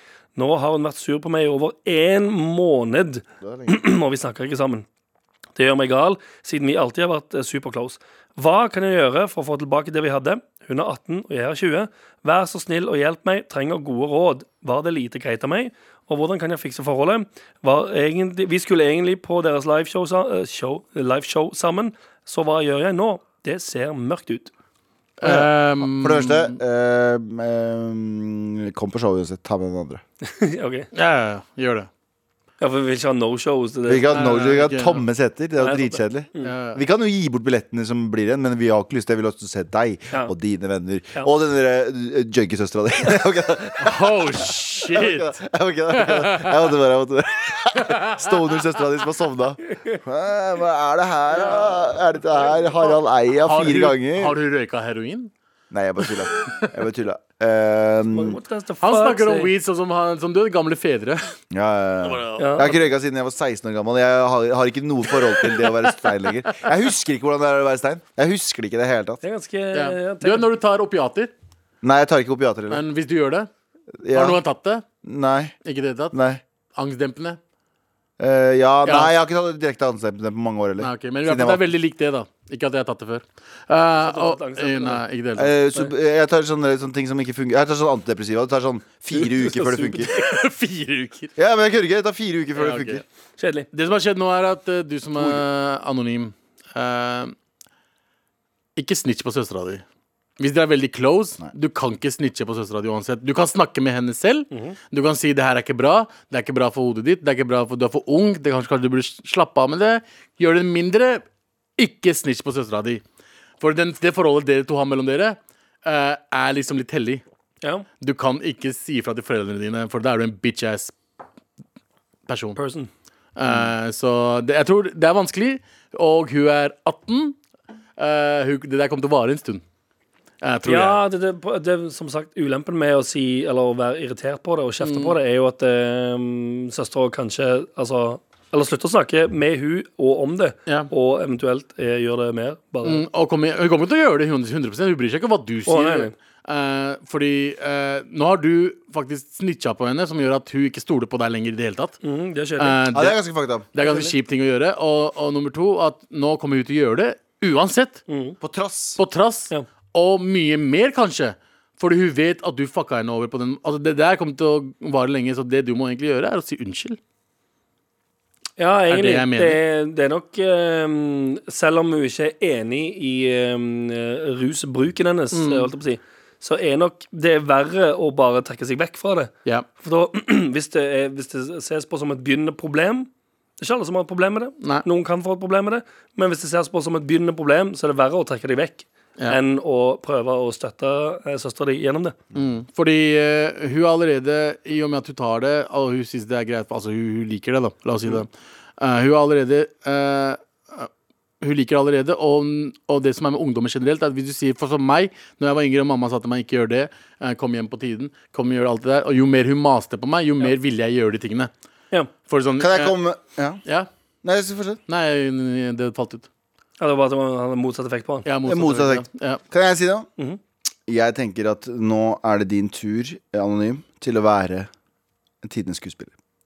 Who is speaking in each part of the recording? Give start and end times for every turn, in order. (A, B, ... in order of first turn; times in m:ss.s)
0:00.4-0:04.9 A
0:03.4-0:03.8 B
0:05.6-0:24.5 A
0:25.2-0:26.6 C
0:25.2-0:30.0 B
0:30.2-0:30.9 A
0:30.9-0:31.9 C
0:32.6-0:34.3 A
0:33.9-0:54.4 B
0:34.1-0:35.1 C
0:35.6-0:36.5 A
0:36.4-0:36.8 C
0:43.8-0:45.4 C
0:45.9-0:46.7 C
0:47.8-0:48.3 C
0:53.4-0:55.3 C
0:55.7-0:58.4 B
0:56.0-0:56.7 C
0:58.1-0:59.5 A
0:58.8-1:01.3 C
1:01.5-1:09.2 B
1:02.0-1:02.5 C
1:02.4-1:02.8 A
1:09.2-1:10.5 A
1:09.7-1:11.3 C
1:11.8-1:12.9 B
1:12.7-1:13.5 C
1:14.0-1:14.4 B
1:14.1-1:14.8 C
1:15.0-1:15.6 B
1:15.6-1:16.2 C
1:16.1-1:16.4 B
1:16.7-1:17.4 C
1:18.2-1:21.6 B
1:18.8-1:19.1 C
1:20.8-1:25.5 C
1:24.0-1:25.0 A
1:25.4-1:30.1 B
1:29.2-1:31.3 C
1:31.4-1:33.0 B
1:32.6-1:33.0 C
1:33.4-1:33.7 A
1:33.7-1:37.4 C
1:35.2-1:35.4 B
1:38.8-1:39.8 C
1:40.4-1:51.2 C
1:44.5-1:44.8 A
1:51.8-1:53.0 C
1:53.6-1:57.2 C
1:58.0-2:01.0 C
2:02.3-2:02.6 C
2:02.6-2:02.9 A
2:03.4-2:07.4 C
2:08.0-2:09.6 C
2:10.4-2:11.0 C
2:10.7-2:23.0 A
2:14.8-2:15.2 C
2:22.8-2:32.0 C
2:25.7-2:26.1 A
2:32.0-2:32.9 A
2:32.6-2:33.2 C
2:32.9-2:33.7 B
2:33.7-2:38.0 C
2:33.8-2:34.1 A
2:38.1-2:38.4 A
2:38.4-2:39.0 B
2:39.0-2:47.0 C
2:48.6-2:59.3 A
2:48.9-2:49.6 C
2:55.3-2:55.7 C
2:59.8-3:03.1 A
3:03.6-3:12.2 A
3:04.6-3:04.9 C
3:12.4-3:20.9 C
3:21.4-3:31.5 C
3:32.3-3:33.0 C
3:32.6-3:33.6 B
3:34.2-3:34.8 B
3:34.9-3:36.3 C
3:36.8-3:38.3 A
3:38.2-3:39.4 C
3:38.5-3:40.1 B
3:40.9-3:44.7 B
3:45.4-3:46.1 B